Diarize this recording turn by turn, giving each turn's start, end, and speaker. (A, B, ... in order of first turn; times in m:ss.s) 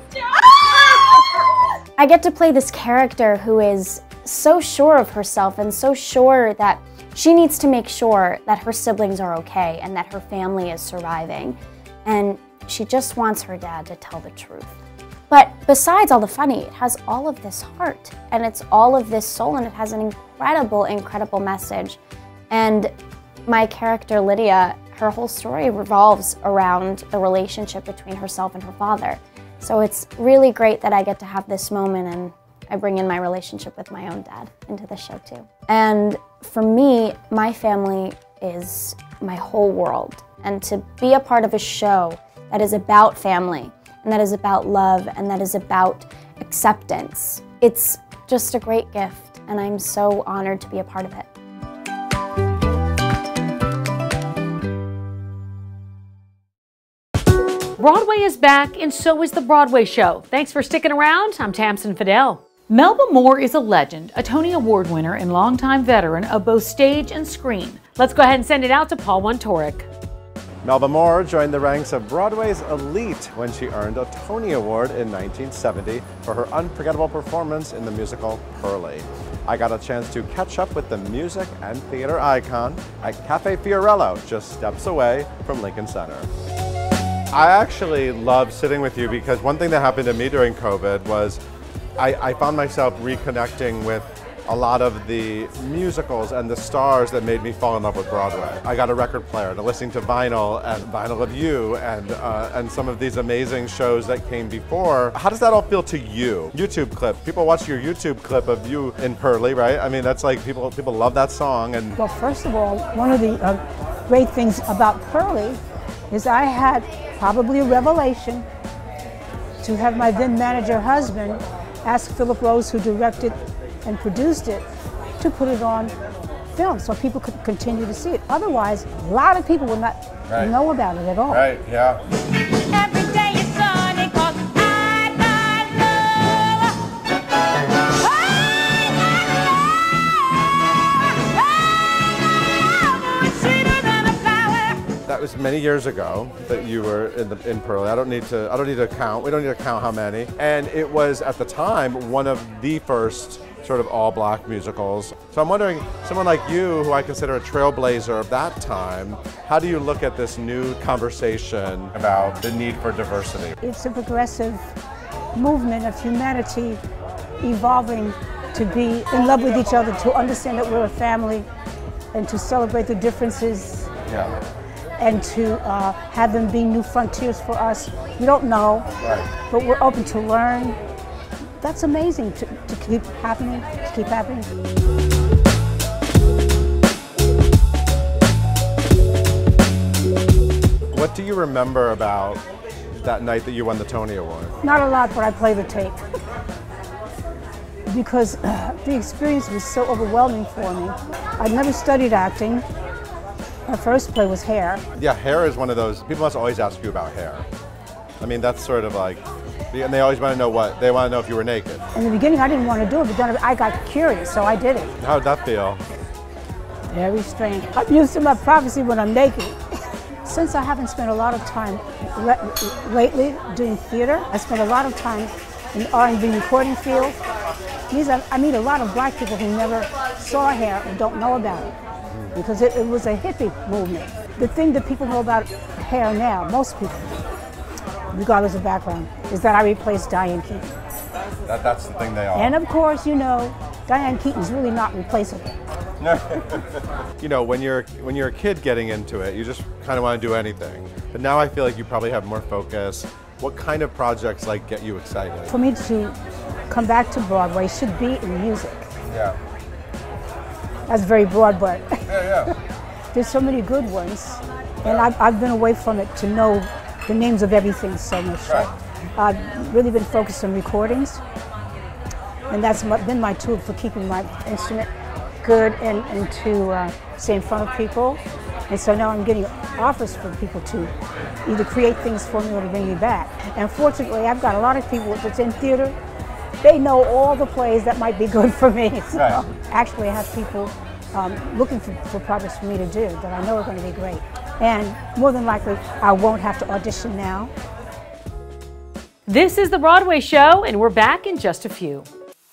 0:02.0-0:14.7 A
0:15.3-0:22.0 A
0:22.5-0:22.9 A
0:23.5-0:51.3 A
0:57.8-1:09.9 B
1:10.6-1:26.3 C
1:27.3-1:31.4 C
1:32.0-1:52.0 C
1:52.0-1:55.6 D
1:56.1-1:58.4 D
1:59.6-2:03.3 D
2:03.8-2:04.6 D
2:05.2-2:05.9 D
2:06.5-2:11.4 D
2:11.3-2:12.0 C
2:25.0-2:43.6 C
2:43.6-2:44.6 D
2:45.4-2:46.8 D
2:47.4-2:51.5 D
2:52.1-2:53.9 D
2:54.1-2:54.4 C
2:55.0-2:58.9 D
2:59.0-2:59.3 C
2:59.5-3:00.8 D
3:01.6-3:04.5 D
3:10.9-3:12.4 C
3:13.0-3:14.6 C
3:14.6-3:16.0 D
3:17.9-3:22.6 D
3:23.7-3:24.8 D
3:25.0-3:27.4 C
3:28.2-3:31.8 C
3:32.0-3:34.9 D
3:35.0-3:35.8 C
3:36.9-3:39.6 D
3:40.2-3:47.2 D
3:47.9-3:51.7 D
3:52.3-3:57.0 D
3:58.1-4:00.7 D
4:01.5-4:02.6 C
4:02.3-4:05.5 D
4:06.0-4:06.6 C
4:07.2-4:15.6 C
4:15.5-4:16.2 D
4:16.7-4:18.8 D
4:19.1-4:19.4 C
4:20.9-4:22.3 D
4:22.1-4:22.5 C
4:23.1-4:31.2 D
4:24.8-4:25.1 C
4:32.5-4:34.9 D
4:35.4-4:40.9 D
4:41.4-4:46.0 D
4:46.6-4:57.5 D
4:49.1-4:49.4 C